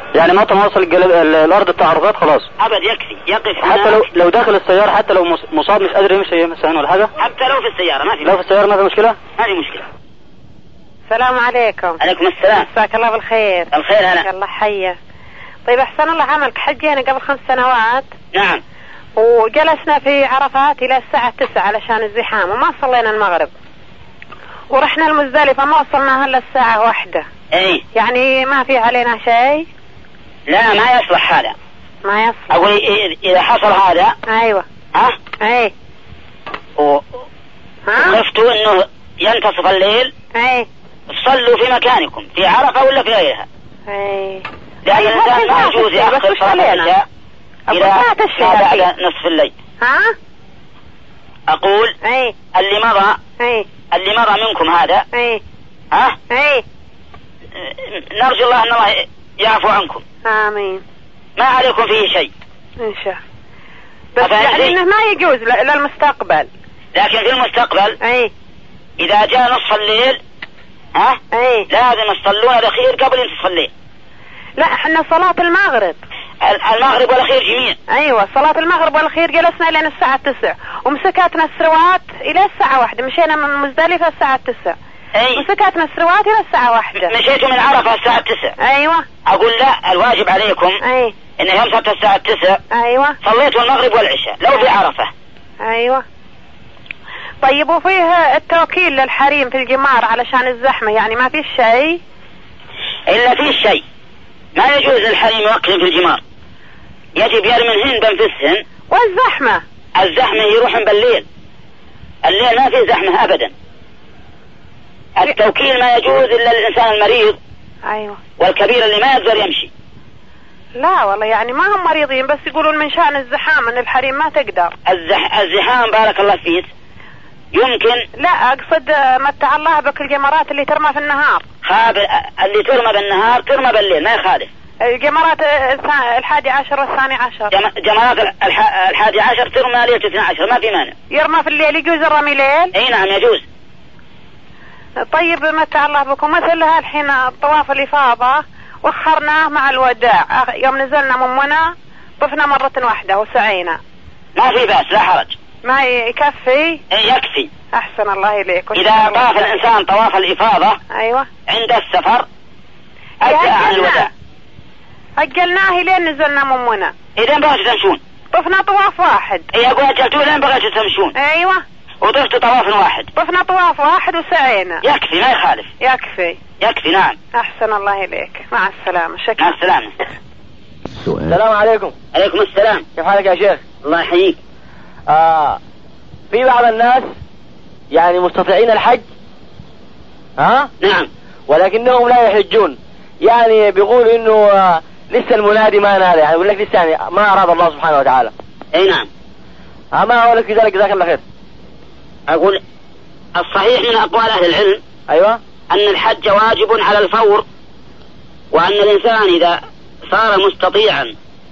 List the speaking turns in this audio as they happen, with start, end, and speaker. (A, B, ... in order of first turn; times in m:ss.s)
0:00.1-0:02.5 A
0:02.6-0:04.0 B
0:03.6-0:07.1 A
0:07.2-0:08.3 B
0:08.2-0:09.2 A
0:09.4-0:09.8 B
0:11.1-0:12.0 C
0:12.0-0:12.6 B
0:12.5-0:13.7 C
0:13.7-0:14.2 B
0:14.2-0:15.0 C
0:15.6-0:18.1 C
0:18.3-0:18.6 B
0:19.2-0:23.5 C
0:24.7-0:27.2 C
0:27.5-0:27.8 B
0:27.9-0:29.6 C
0:30.5-0:31.5 B
0:32.0-0:32.5 C
0:32.5-0:34.1 B
0:34.3-0:34.6 C
0:35.4-0:35.7 C
0:36.8-0:37.0 B
0:37.9-0:38.2 C
0:38.0-0:40.1 B
0:40.3-0:40.7 C
0:41.1-0:43.4 B
0:43.9-0:46.9 C
0:44.8-0:47.0 B
0:47.7-0:48.9 C
0:47.7-0:49.5 B
0:49.8-0:50.1 C
0:51.5-0:51.9 B
0:52.0-0:52.3 C
0:52.5-0:53.2 B
0:53.4-0:53.6 C
0:53.9-0:55.0 B
0:55.1-0:55.4 C
0:56.3-0:56.6 C
0:57.6-1:00.0 B
1:00.2-1:00.8 C
1:01.4-1:02.3 B
1:02.8-1:03.2 C
1:04.2-1:06.5 C
1:04.2-1:04.7 B
1:06.9-1:08.0 B
1:08.0-1:08.3 C
1:09.0-1:10.2 B
1:11.3-1:11.7 C
1:11.7-1:13.7 B
1:14.6-1:16.0 C
1:16.4-1:17.8 B
1:17.9-1:24.8 C
1:25.2-1:25.4 B
1:25.4-1:27.1 C
1:27.1-1:28.5 B
1:28.6-1:29.0 C
1:29.3-1:30.8 B
1:30.8-1:31.1 C
1:31.4-1:32.6 B
1:32.7-1:33.2 C
1:33.2-1:35.1 B
1:35.6-1:36.0 C
1:37.4-1:42.0 C
1:43.1-1:43.8 B
1:44.6-1:46.2 B
1:47.2-1:48.6 B
1:48.9-1:49.6 C
1:50.0-1:51.2 B
1:52.2-1:53.5 B
1:55.2-1:57.4 B
1:57.9-1:58.2 C
1:58.4-1:59.7 B
2:00.8-2:04.7 C
2:04.9-2:06.7 B
2:07.5-2:08.0 B
2:08.2-2:11.4 C
2:11.6-2:14.5 B
2:14.9-2:17.5 C
2:17.5-2:20.9 B
2:21.1-2:22.7 C
2:22.7-2:23.4 B
2:25.1-2:33.8 C
2:34.4-2:35.3 B
2:35.6-2:36.8 C
2:36.9-2:37.5 B
2:37.7-2:39.5 C
2:38.7-2:40.8 B
2:40.9-2:41.3 C
2:41.5-2:42.2 B
2:43.2-2:44.1 C
2:43.2-2:44.1 B
2:45.2-2:46.9 C
2:47.2-2:48.0 B
2:48.3-2:49.5 C
2:49.5-2:51.1 B
2:51.2-2:51.6 C
2:52.0-2:53.1 B
2:53.2-2:54.8 C
2:54.8-2:55.7 B
2:55.8-2:56.4 C
2:56.6-2:57.2 B
2:57.3-2:59.6 C
2:59.4-2:59.9 B
3:01.2-3:01.9 D
3:02.1-3:02.8 B
3:03.0-3:03.6 D
3:03.8-3:04.4 B
3:05.1-3:05.6 D
3:06.3-3:07.1 D
3:07.9-3:09.0 D
3:10.4-3:10.7 D
3:10.8-3:11.1 B
3:11.5-3:18.3 D
3:18.7-3:19.1 B
3:19.9-3:21.2 D
3:22.3-3:22.6 B
3:23.4-3:24.8 B
3:25.1-3:25.4 D
3:25.7-3:27.4 B
3:28.5-3:29.6 B
3:30.1-3:31.1 B